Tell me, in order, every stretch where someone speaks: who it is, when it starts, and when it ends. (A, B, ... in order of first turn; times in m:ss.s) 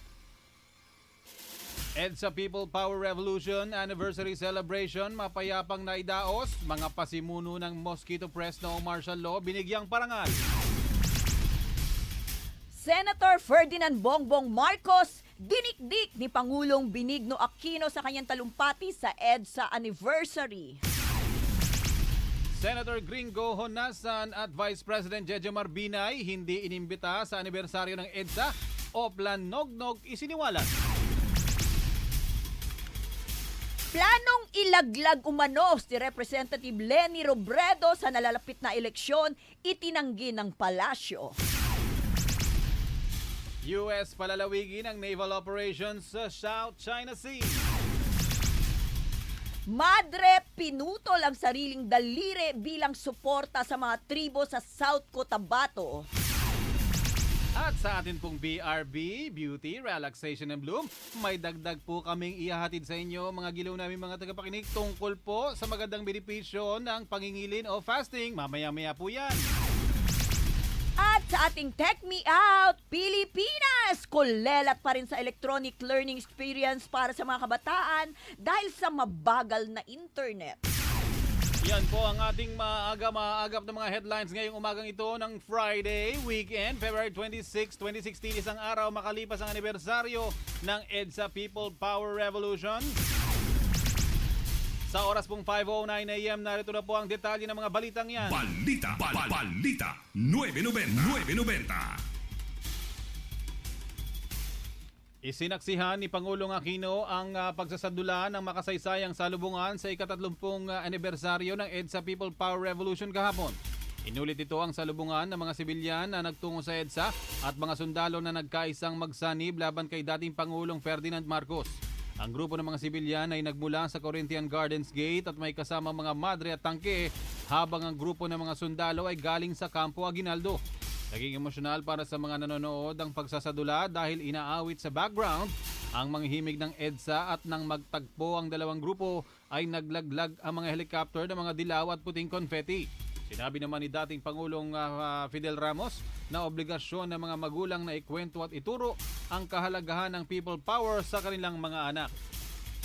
0:02.0-0:10.4 A
0:12.7-0:20.8 B
0:22.5-0:30.7 A
0:33.9-0:41.4 B
0:43.6-0:47.6 A
0:49.7-0:56.1 B
0:57.6-1:09.5 A
1:11.0-1:20.6 B
1:21.6-1:33.0 A
1:34.9-1:38.4 A
1:38.2-1:42.0 C
1:45.3-2:10.6 A
2:11.1-2:32.1 A